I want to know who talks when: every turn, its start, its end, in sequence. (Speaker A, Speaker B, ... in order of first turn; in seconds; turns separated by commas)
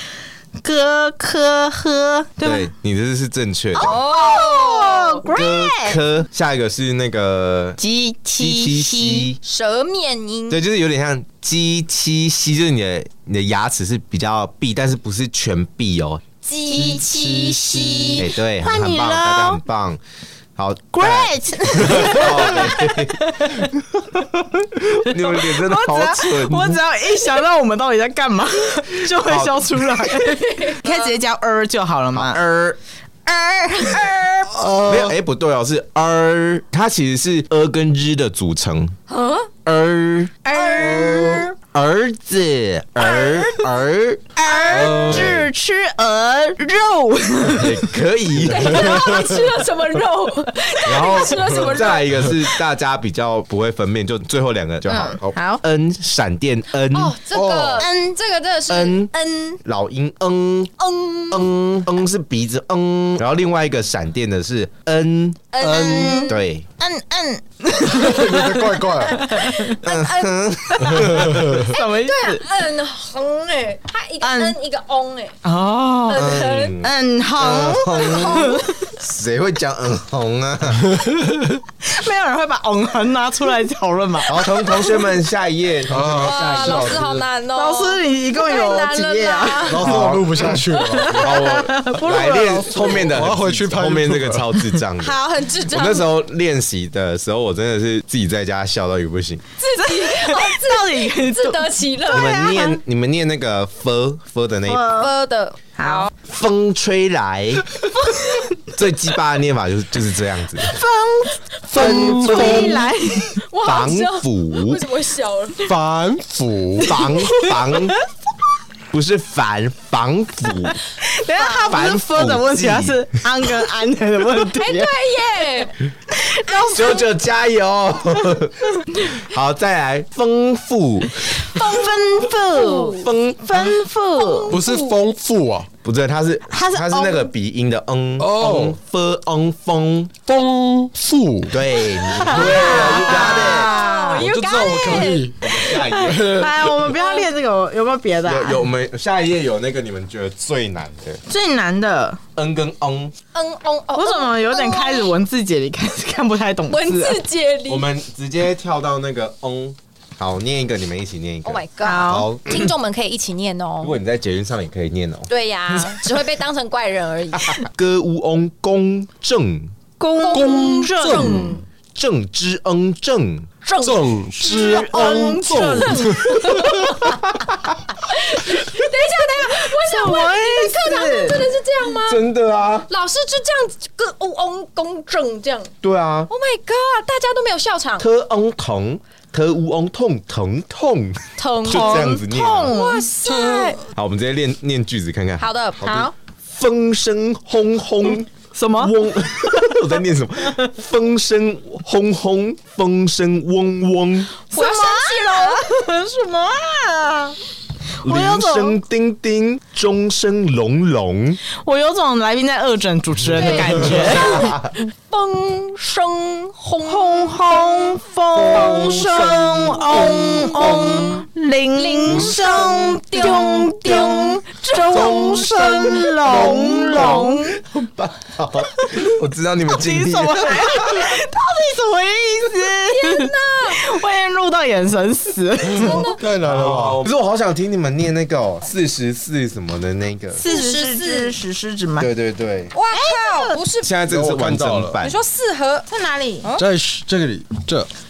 Speaker A: 0.6-2.7, Speaker B: 2.4-3.9, Speaker A: 3.8-6.0, Speaker C: 3.8-5.2, Speaker B: 5.3-7.8, Speaker A: 7.8-9.3, Speaker B: 8.4-9.4, Speaker C: 9.4-10.6, Speaker B: 10.5-16.2, Speaker C: 16.4-18.2, Speaker A: 16.7-19.6, Speaker B: 18.2-20.0, Speaker B: 20.6-26.8, Speaker A: 20.9-23.7, Speaker A: 25.1-34.5, Speaker B: 29.1-30.1, Speaker C: 30.4-31.1, Speaker B: 32.1-32.5, Speaker D: 34.5-35.1, Speaker B: 34.9-39.0, Speaker C: 39.1-39.5, Speaker B: 39.7-40.5, Speaker A: 40.5-41.5, Speaker C: 40.5-41.5, Speaker D: 41.0-41.3, Speaker B: 41.7-45.5, Speaker C: 43.1-43.5, Speaker A: 44.4-47.9, Speaker C: 44.5-45.0, Speaker D: 44.7-45.4, Speaker B: 47.5-49.2, Speaker C: 48.5-52.5, Speaker D: 48.6-49.2, Speaker B: 50.8-57.2, Speaker A: 54.9-55.6, Speaker C: 56.9-59.1, Speaker D: 57.3-57.8, Speaker A: 57.8-58.2, Speaker B: 58.7-59.1, Speaker A: 59.1-59.6, Speaker B: 59.6-60.7, Speaker C: 60.8-61.5, Speaker B: 61.3-65.5, Speaker C: 65.5-66.4, Speaker D: 65.6-66.2, Speaker A: 65.6-69.8, Speaker B: 66.3-66.7, Speaker D: 67.8-69.2, Speaker C: 69.1-71.0, Speaker B: 69.8-71.7, Speaker A: 70.7-72.4, Speaker D: 71.0-71.6, Speaker C: 71.7-75.4, Speaker A: 74.2-74.5, Speaker A: 75.4-78.9, Speaker C: 76.1-76.8, Speaker B: 76.1-80.9, Speaker C: 78.0-78.7, Speaker A: 81.8-84.5, Speaker B: 84.3-87.1, Speaker D: 85.9-87.2, Speaker C: 86.1-91.2, Speaker A: 87.6-90.0, Speaker D: 89.7-91.3, Speaker B: 89.8-99.5, Speaker A: 91.0-93.1, Speaker D: 93.0-94.6, Speaker C: 95.0-96.1, Speaker C: 99.6-102.6, Speaker A: 99.7-102.8, Speaker B: 102.1-105.0, Speaker A: 104.7-105.1, Speaker C: 104.9-106.1, Speaker A: 105.8-106.1, Speaker B: 106.2-107.7, Speaker A: 108.0-108.5, Speaker B: 108.7-110.8, Speaker A: 110.6-113.4, Speaker D: 111.7-112.9, Speaker B: 111.8-112.8, Speaker C: 111.8-112.8, Speaker C: 113.4-115.6, Speaker B: 113.6-114.8, Speaker D: 115.7-117.0, Speaker B: 116.8-118.0, Speaker A: 116.9-118.0, Speaker B: 118.9-120.8, Speaker A: 121.0-124.9, Speaker B: 121.5-123.5, Speaker C: 124.6-125.8, Speaker A: 126.1-127.0, Speaker B: 126.7-131.5, Speaker A: 131.5-134.6, Speaker C: 131.6-133.1, Speaker B: 132.9-133.7, Speaker C: 134.2-135.0, Speaker D: 134.5-135.7, Speaker B: 135.8-140.1, Speaker A: 136.5-137.3, Speaker D: 138.2-138.8, Speaker D: 140.3-141.6, Speaker B: 141.5-146.5, Speaker A: 142.1-144.2, Speaker C: 142.2-145.3, Speaker D: 144.2-146.9, Speaker A: 145.9-148.7, Speaker C: 146.9-147.3, Speaker B: 148.2-151.2, Speaker A: 151.3-152.2, Speaker B: 152.4-153.2, Speaker C: 153.3-155.2, Speaker A: 153.9-157.2, Speaker C: 156.7-157.9, Speaker B: 157.7-162.7, Speaker C: 161.4-163.9, Speaker A: 161.8-162.3, Speaker B: 163.8-165.9, Speaker C: 165.3-167.6, Speaker B: 167.5-169.7, Speaker A: 170.0-171.5, Speaker C: 170.2-171.6, Speaker D: 170.3-171.6, Speaker B: 171.9-173.5, Speaker C: 173.6-177.3, Speaker D: 173.8-176.8, Speaker A: 174.6-176.2, Speaker C: 178.0-182.2, Speaker A: 179.8-181.5, Speaker B: 182.0-182.9, Speaker C: 182.9-185.7, Speaker B: 185.8-186.3, Speaker C: 186.3-188.1, Speaker B: 188.0-192.8, Speaker C: 191.4-193.8, Speaker A: 191.6-193.8, Speaker B: 193.9-204.3, Speaker C: 195.4-196.1, Speaker A: 195.8-196.1, Speaker A: 198.5-198.9, Speaker A: 204.5-207.4, Speaker C: 204.5-205.7, Speaker A: 208.0-208.8, Speaker B: 208.0-211.4, Speaker A: 211.6-214.6, Speaker C: 213.3-218.9, Speaker B: 213.6-214.7, Speaker A: 216.8-227.6, Speaker D: 218.6-219.7, Speaker C: 219.5-221.2, Speaker C: 221.8-227.4, Speaker B: 225.1-231.2, Speaker A: 228.6-229.0, Speaker A: 229.7-236.2, Speaker C: 232.7-233.9, Speaker C: 235.7-236.2, Speaker D: 235.8-237.0, Speaker B: 236.4-240.4, Speaker A: 240.4-242.1, Speaker C: 240.5-241.3, Speaker B: 242.0-242.7, Speaker C: 242.7-243.9, Speaker A: 242.9-243.6, Speaker B: 243.8-245.2, Speaker D: 244.1-245.0, Speaker C: 245.0-245.9, Speaker A: 245.9-246.5, Speaker D: 246.6-247.9